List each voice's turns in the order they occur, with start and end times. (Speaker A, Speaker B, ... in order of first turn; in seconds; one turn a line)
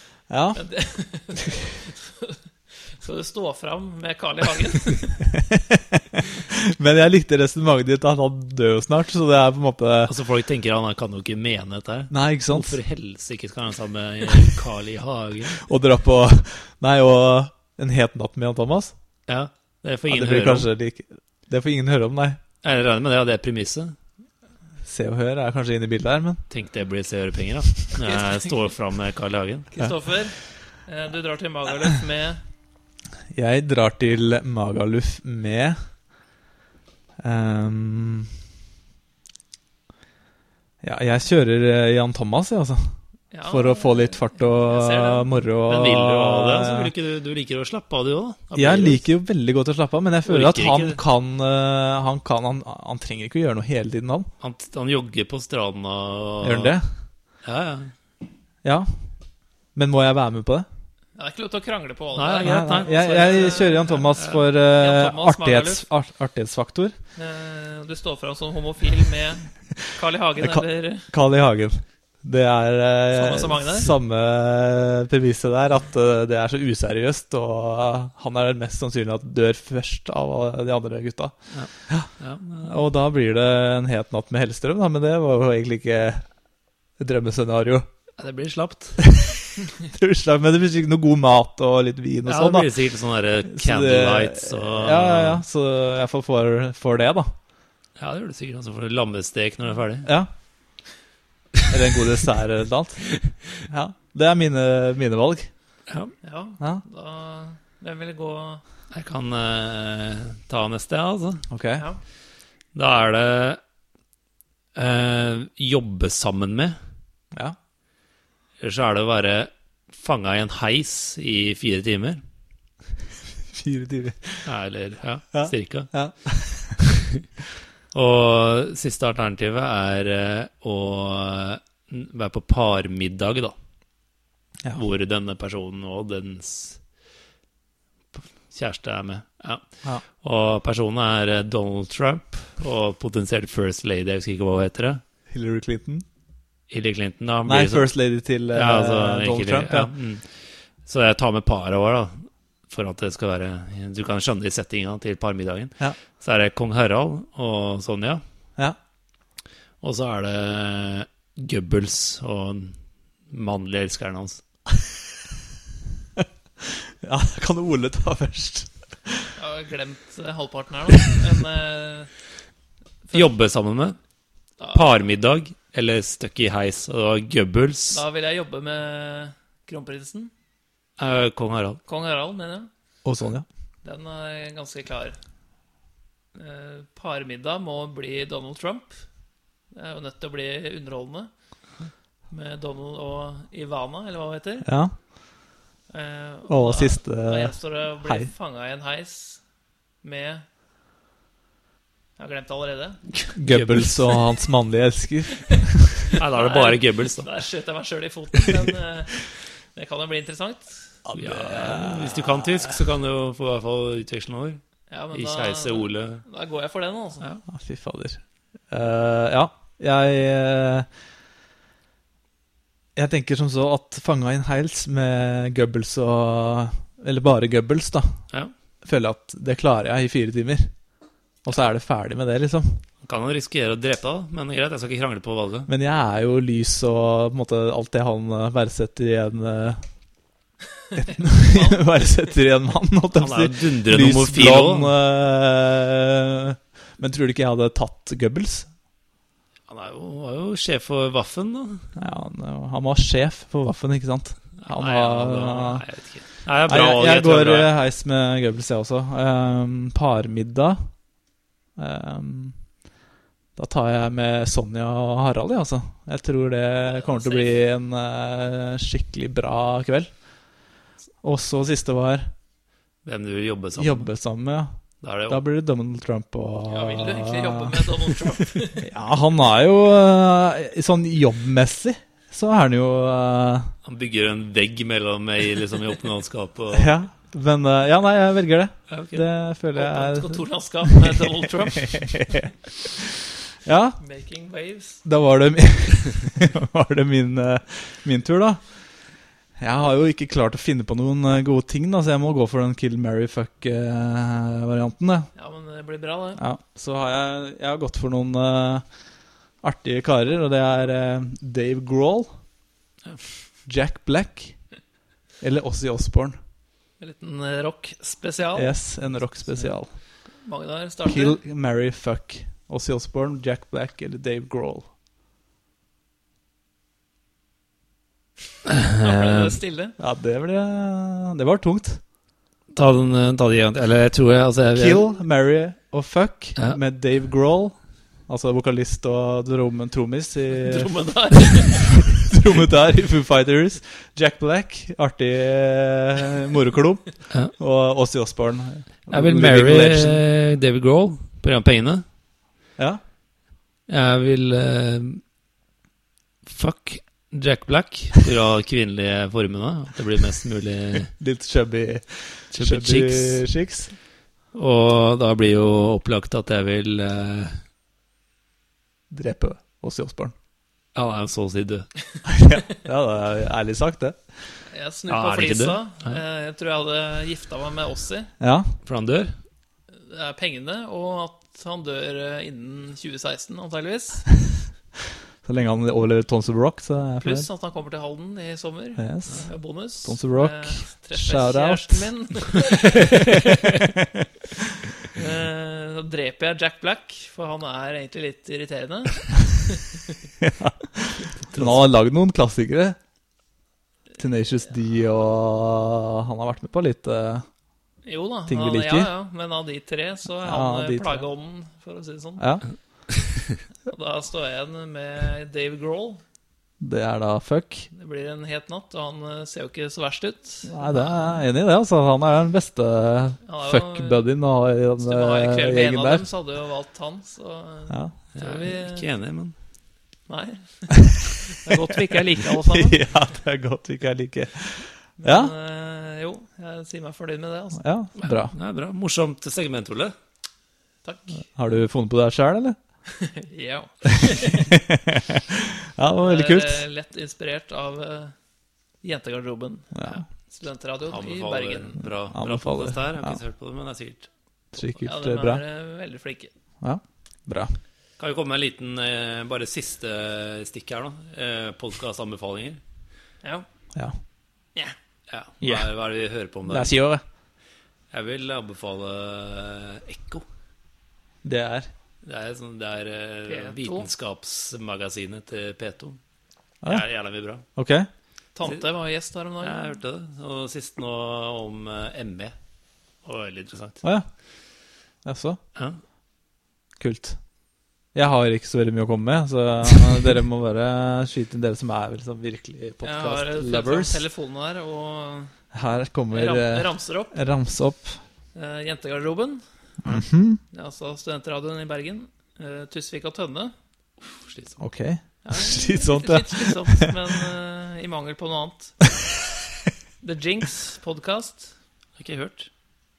Speaker A: 0.3-0.6
Speaker B: 0.5-5.2
Speaker A: 5.3-10.1
Speaker C: 10.1-15.6
Speaker A: 12.1-12.8
Speaker A: 15.6-18.9
Speaker C: 19.3-20.7
Speaker A: 20.1-22.4
Speaker C: 22.6-23.9
Speaker A: 24.8-26.4
Speaker C: 26.5-29.7
Speaker B: 28.1-28.5
Speaker B: 29.7-32.4
Speaker A: 33.3-35.8
Speaker A: 37.2-38.3
Speaker A: 40.8-46.9
Speaker B: 43.3-45.3
Speaker C: 45.7-49.0
Speaker A: 48.5-54.3
Speaker C: 50.2-51.0
Speaker C: 54.4-56.8
Speaker A: 56.4-56.9
Speaker C: 57.4-57.9
Speaker A: 58.6-58.9
Speaker A: 59.7-60.7
Speaker B: 61.1-65.8
Speaker C: 62.1-63.7
Speaker A: 62.4-67.0
Speaker B: 67.2-71.1
Speaker A: 70.4-82.1
Speaker B: 73.1-73.9
Speaker C: 81.5-82.8
Speaker A: 82.6-86.2
Speaker A: 87.0-87.9
Speaker C: 88.2-89.0
Speaker A: 89.0-92.7
Speaker C: 92.2-95.4
Speaker A: 93.5-97.3
Speaker C: 98.0-100.1
Speaker A: 100.0-100.3
Speaker A: 101.7-105.5
Speaker C: 105.9-106.1
Speaker B: 106.2-108.6
Speaker C: 108.9-111.5
Speaker A: 111.5-111.8
Speaker C: 112.7-113.6
Speaker C: 114.7-116.8
Speaker C: 118.6-122.2
Speaker A: 123.5-124.5
Speaker C: 124.4-125.9
Speaker A: 125.3-126.8
Speaker C: 127.9-133.5
Speaker C: 134.7-136.8
Speaker C: 138.1-145.0
Speaker A: 145.3-146.0
Speaker C: 146.7-147.9
Speaker A: 147.4-149.9
Speaker C: 148.5-158.2
Speaker C: 159.8-162.8
Speaker C: 163.3-164.4
Speaker A: 166.2-169.3
Speaker B: 169.3-172.1
Speaker C: 173.1-174.0
Speaker B: 174.6-174.8
Speaker C: 174.7-178.0
Speaker B: 177.9-180.3
Speaker C: 181.0-181.8
Speaker B: 181.8-182.7
Speaker A: 183.0-183.4
Speaker B: 183.8-185.2
Speaker B: 186.3-189.0
Speaker B: 189.7-191.3
Speaker B: 192.3-194.7
Speaker A: 194.6-194.9
Speaker B: 195.9-199.4
Speaker A: 196.5-198.3
Speaker B: 200.0-200.4
Speaker B: 202.2-203.1
Speaker C: 203.3-204.2
Speaker A: 203.3-206.1
Speaker B: 206.1-210.9
Speaker C: 206.2-207.3
Speaker A: 211.0-212.7
Speaker C: 211.2-214.6
Speaker B: 214.9-217.3
Speaker C: 215.1-216.2
Speaker A: 217.5-220.9
Speaker A: 222.9-228.2
Speaker A: 228.8-230.7
Speaker A: 231.4-232.8
Speaker C: 233.0-235.7
Speaker A: 235.7-239.8
Speaker A: 240.9-248.7
Speaker B: 241.4-241.8
Speaker C: 243.1-244.9
Speaker C: 249.7-251.9
Speaker A: 251.9-255.8
Speaker C: 254.6-257.7
Speaker A: 256.6-260.9
Speaker A: 261.8-262.6
Speaker A: 263.6-270.1
Speaker B: 266.9-267.6
Speaker A: 271.2-272.3
Speaker C: 273.0-274.1
Speaker A: 273.8-274.7
Speaker C: 275.0-275.4
Speaker A: 275.3-283.7
Speaker B: 276.7-278.8
Speaker C: 283.8-286.9
Speaker A: 286.7-293.1
Speaker C: 288.9-289.2
Speaker B: 289.7-292.3
Speaker A: 293.6-294.0
Speaker B: 294.0-295.0
Speaker A: 295.0-298.9
Speaker A: 299.6-305.3
Speaker B: 305.3-306.4
Speaker A: 306.4-308.9
Speaker A: 309.6-312.4
Speaker A: 313.6-314.6
Speaker A: 315.4-316.4
Speaker B: 317.0-318.8
Speaker A: 318.5-319.9
Speaker B: 320.4-321.4
Speaker A: 321.0-324.9
Speaker C: 328.7-329.6
Speaker B: 329.0-329.9
Speaker A: 330.0-332.0
Speaker C: 332.7-335.0
Speaker A: 334.7-350.2
Speaker B: 340.5-342.2
Speaker C: 349.1-352.0
Speaker C: 353.9-355.2
Speaker C: 356.4-361.1
Speaker A: 361.1-363.9
Speaker C: 362.5-363.4
Speaker C: 364.5-367.6
Speaker A: 369.1-370.3
Speaker C: 370.9-371.9
Speaker A: 372.2-374.2
Speaker B: 374.7-378.3
Speaker C: 375.1-376.2
Speaker A: 378.4-378.7
Speaker C: 378.8-379.4
Speaker B: 379.9-384.3
Speaker A: 385.4-387.5
Speaker B: 387.2-393.5
Speaker A: 389.0-394.1
Speaker B: 395.1-400.0
Speaker A: 400.4-403.0
Speaker C: 401.4-401.8
Speaker A: 404.2-407.4
Speaker B: 408.0-412.5
Speaker A: 408.5-409.1
Speaker A: 410.4-411.3
Speaker A: 412.4-412.6
Speaker C: 413.3-413.6
Speaker B: 413.9-416.2
Speaker A: 416.8-417.9
Speaker B: 417.9-421.4
Speaker A: 420.6-426.3
Speaker B: 423.4-424.2
Speaker B: 425.0-429.1
Speaker A: 427.9-428.1
Speaker C: 428.3-429.5
Speaker B: 430.3-433.1
Speaker A: 432.4-435.5
Speaker B: 435.2-437.8
Speaker A: 437.8-438.5
Speaker C: 438.2-440.1
Speaker B: 441.0-441.4
Speaker A: 441.5-442.8
Speaker B: 443.1-444.8
Speaker A: 444.1-446.8
Speaker B: 446.2-448.3
Speaker B: 449.0-452.1
Speaker A: 449.9-450.2
Speaker C: 451.1-454.3
Speaker A: 452.3-453.4
Speaker A: 454.7-455.6
Speaker B: 455.0-456.5
Speaker A: 456.8-457.8
Speaker C: 458.2-462.8
Speaker C: 465.3-466.9
Speaker A: 465.6-465.9
Speaker A: 466.6-467.2
Speaker C: 468.1-470.4
Speaker A: 471.4-471.9
Speaker C: 472.2-476.2
Speaker B: 473.5-474.1
Speaker C: 476.8-477.6
Speaker A: 477.7-478.1
Speaker B: 478.5-479.9
Speaker C: 479.6-482.6
Speaker C: 483.2-484.0
Speaker A: 485.2-485.6
Speaker C: 485.7-486.0
Speaker A: 487.0-487.4
Speaker A: 488.1-494.2
Speaker B: 493.0-495.5
Speaker A: 495.7-498.2
Speaker B: 496.3-497.3
Speaker B: 498.5-499.6
Speaker A: 500.0-500.6
Speaker B: 500.7-503.7
Speaker C: 504.2-504.8
Speaker A: 504.8-507.4
Speaker B: 505.4-509.1
Speaker B: 510.2-511.7
Speaker C: 512.2-512.7